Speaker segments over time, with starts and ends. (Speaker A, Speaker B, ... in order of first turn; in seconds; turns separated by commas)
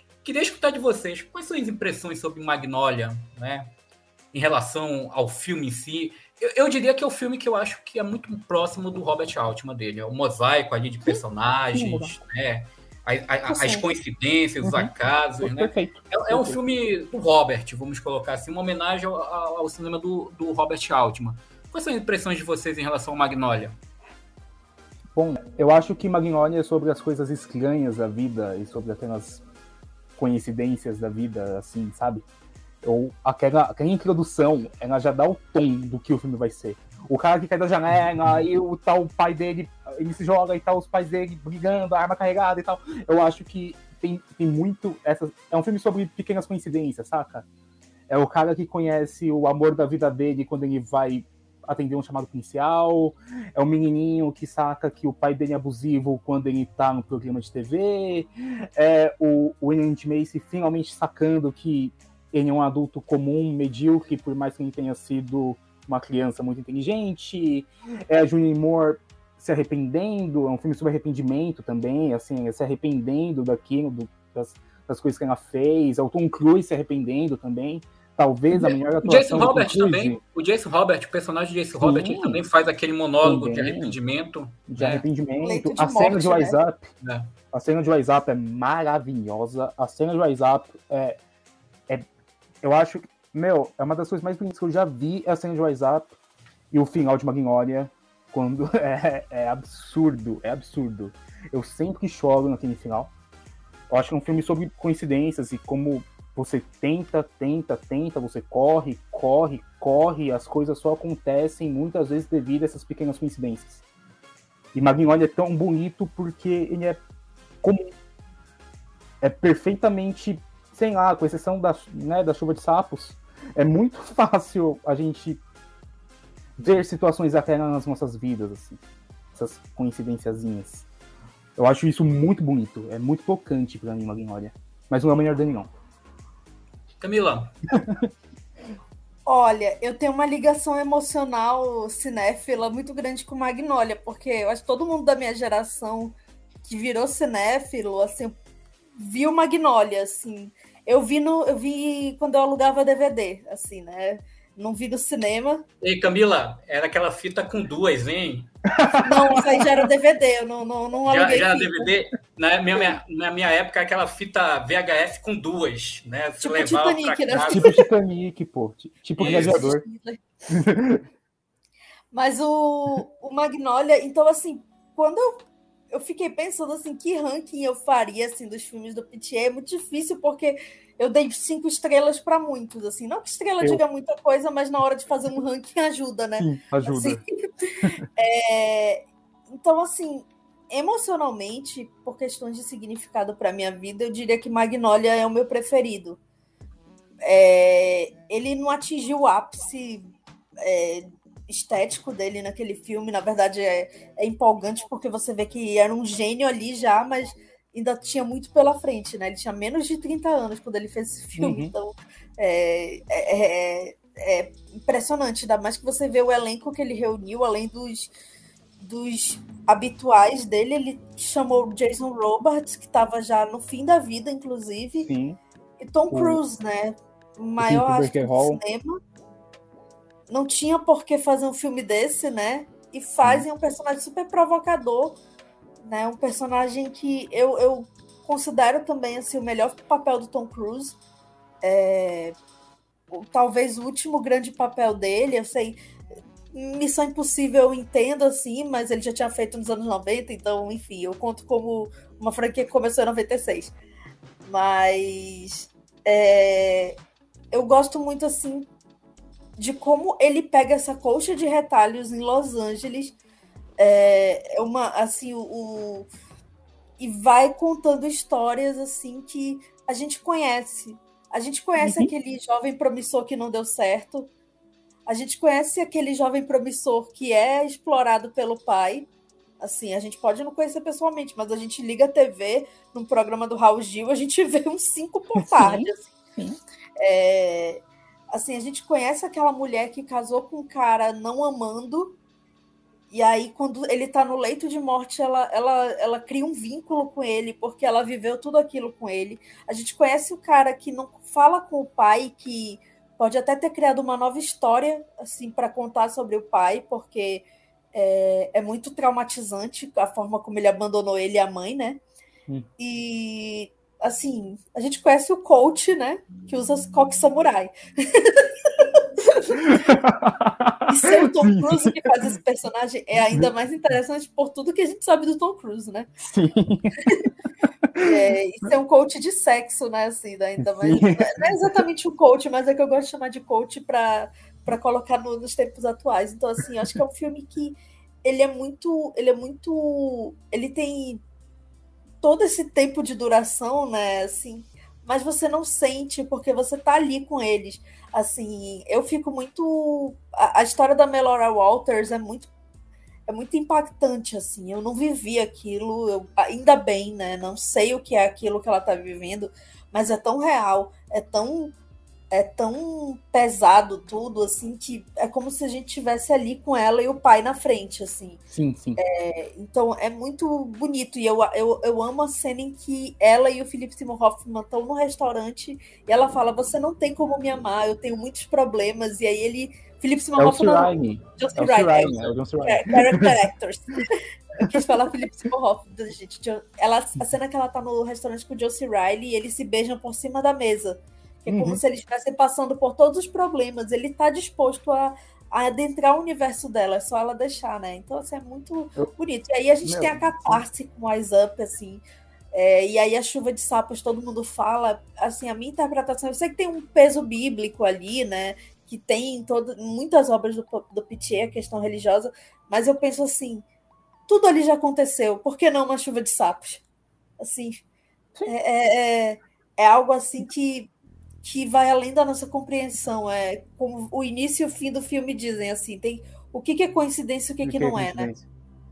Speaker A: 0.2-3.7, Speaker A: 4.3-23.8, Speaker B: 11.7-12.1, Speaker C: 13.5-13.8, Speaker B: 14.6-16.6, Speaker B: 25.1-29.4, Speaker B: 30.2-32.2, Speaker B: 32.8-47.4, Speaker B: 48.1-80.2, Speaker A: 78.6-85.0, Speaker B: 81.8-82.4, Speaker B: 83.2-84.0, Speaker B: 84.7-86.8, Speaker C: 85.4-86.6, Speaker A: 87.0-87.3, Speaker B: 87.5-91.2, Speaker B: 92.6-96.1, Speaker B: 96.7-103.1, Speaker B: 103.9-113.8, Speaker B: 114.7-117.0, Speaker B: 117.6-117.9, Speaker B: 119.2-125.4, Speaker B: 126.6-128.8, Speaker B: 129.3-130.8, Speaker B: 131.6-135.7, Speaker A: 137.0-137.5, Speaker B: 137.7-138.0, Speaker C: 139.2-146.1, Speaker C: 146.7-148.3, Speaker C: 149.0-155.6, Speaker A: 155.8-158.5, Speaker B: 158.7-159.6, Speaker C: 159.0-161.9, Speaker A: 161.0-167.8, Speaker C: 166.4-167.7, Speaker B: 167.5-169.8, Speaker A: 169.2-169.7, Speaker C: 169.2-170.2, Speaker B: 170.5-171.0, Speaker C: 172.1-175.3, Speaker C: 175.9-196.2, Speaker B: 186.4-187.2, Speaker C: 197.2-200.1, Speaker C: 200.6-218.1, Speaker B: 211.4-211.7, Speaker C: 218.8-225.1, Speaker B: 225.1-225.4, Speaker C: 225.8-229.0, Speaker B: 226.1-226.4, Speaker B: 227.6-228.6, Speaker C: 230.3-235.2, Speaker C: 235.8-241.0, Speaker C: 241.6-242.3, Speaker C: 243.1-245.8, Speaker C: 246.5-253.7, Speaker C: 254.4-256.9, Speaker C: 257.5-258.7, Speaker C: 259.6-263.1, Speaker C: 263.8-266.1, Speaker C: 267.0-274.3, Speaker B: 271.8-272.1, Speaker C: 275.1-279.1, Speaker C: 279.6-286.1, Speaker B: 285.4-285.9, Speaker C: 287.0-292.2, Speaker C: 293.1-312.0, Speaker C: 312.8-319.9, Speaker B: 319.6-322.1, Speaker C: 320.9-326.1, Speaker B: 326.2-326.9, Speaker C: 328.0-341.2, Speaker B: 330.6-331.7, Speaker C: 342.2-352.5, Speaker C: 353.3-361.7, Speaker C: 362.3-368.4, Speaker B: 368.5-369.0, Speaker C: 369.0-413.6, Speaker B: 380.4-383.4, Speaker B: 384.6-385.0, Speaker B: 391.5-391.8, Speaker B: 399.8-400.6, Speaker C: 414.3-416.8, Speaker C: 417.4-417.8, Speaker C: 418.4-420.9, Speaker C: 421.4-428.3, Speaker B: 427.6-428.4